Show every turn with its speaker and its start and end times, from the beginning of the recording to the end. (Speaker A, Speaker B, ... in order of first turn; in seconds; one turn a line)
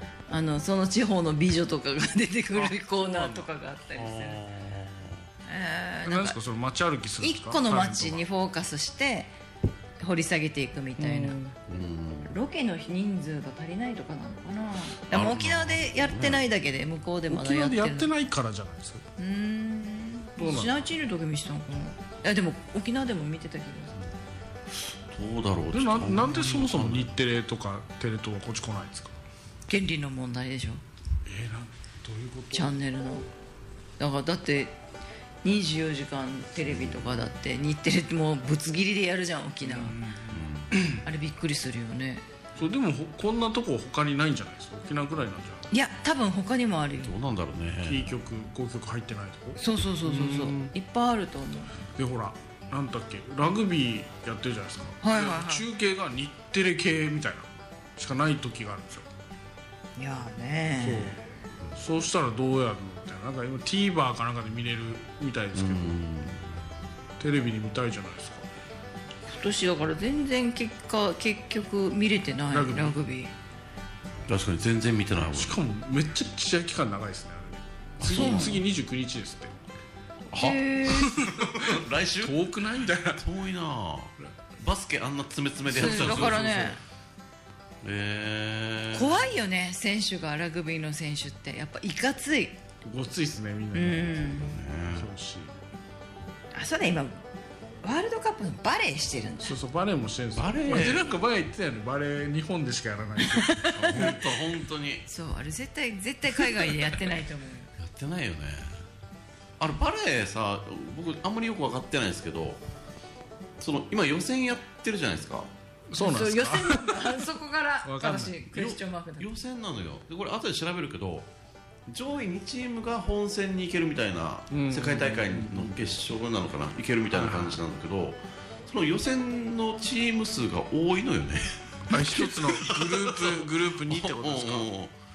Speaker A: 0.3-4.4
Speaker B: 3.0-5.2
Speaker A: 5.5-6.4
Speaker C: 6.0-8.2
Speaker A: 7.2-9.3
Speaker A: 10.0-11.4
Speaker C: 11.0-11.6
Speaker B: 11.7-12.3
Speaker A: 12.3-18.1
Speaker B: 15.1-16.4
Speaker C: 17.3-19.0
Speaker A: 19.2-24.0
Speaker C: 20.4-20.8
Speaker B: 25.1-27.1
Speaker C: 25.7-29.2
Speaker A: 29.7-30.8
Speaker C: 31.2-32.7
Speaker A: 32.5-33.3
Speaker A: 34.0-34.8
Speaker A: 35.4-40.0
Speaker B: 36.6-37.1
Speaker C: 39.6-41.0
Speaker B: 40.3-40.8
Speaker A: 41.0-42.2
Speaker C: 42.5-45.7
Speaker A: 45.7-47.1
Speaker B: 47.0-48.1
Speaker C: 47.8-50.7
Speaker A: 49.6-51.8
Speaker C: 52.0-59.1
Speaker A: 55.0-55.6
Speaker A: 60.0-61.2
Speaker C: 60.8-66.0
Speaker B: 65.5-66.5
Speaker C: 67.2-68.5
Speaker A: 69.3-73.3
Speaker C: 72.5-72.9
Speaker B: 74.3-75.6
Speaker C: 75.3-79.6
Speaker B: 78.0-78.6
Speaker A: 78.0-78.6
Speaker A: 80.3-81.2
Speaker B: 80.3-82.4
Speaker C: 81.0-83.2
Speaker B: 83.1-86.7
Speaker C: 85.7-86.7
Speaker A: 85.7-86.8
Speaker B: 87.8-89.2
Speaker A: 88.9-92.6
Speaker C: 92.8-95.5
Speaker A: 93.7-94.5
Speaker B: 94.4-95.1
Speaker A: 96.5-97.2
Speaker A: 97.8-99.5
Speaker C: 99.4-104.2
Speaker B: 100.3-101.2
Speaker A: 103.2-104.3
Speaker B: 103.8-105.0
Speaker A: 105.1-107.7
Speaker B: 107.8-108.8
Speaker B: 109.6-112.6
Speaker B: 113.6-115.5
Speaker C: 115.9-117.2
Speaker A: 116.0-119.3
Speaker C: 117.8-118.4
Speaker B: 118.5-121.3
Speaker B: 121.9-134.9
Speaker C: 124.5-125.8
Speaker C: 127.1-127.6
Speaker C: 131.9-134.7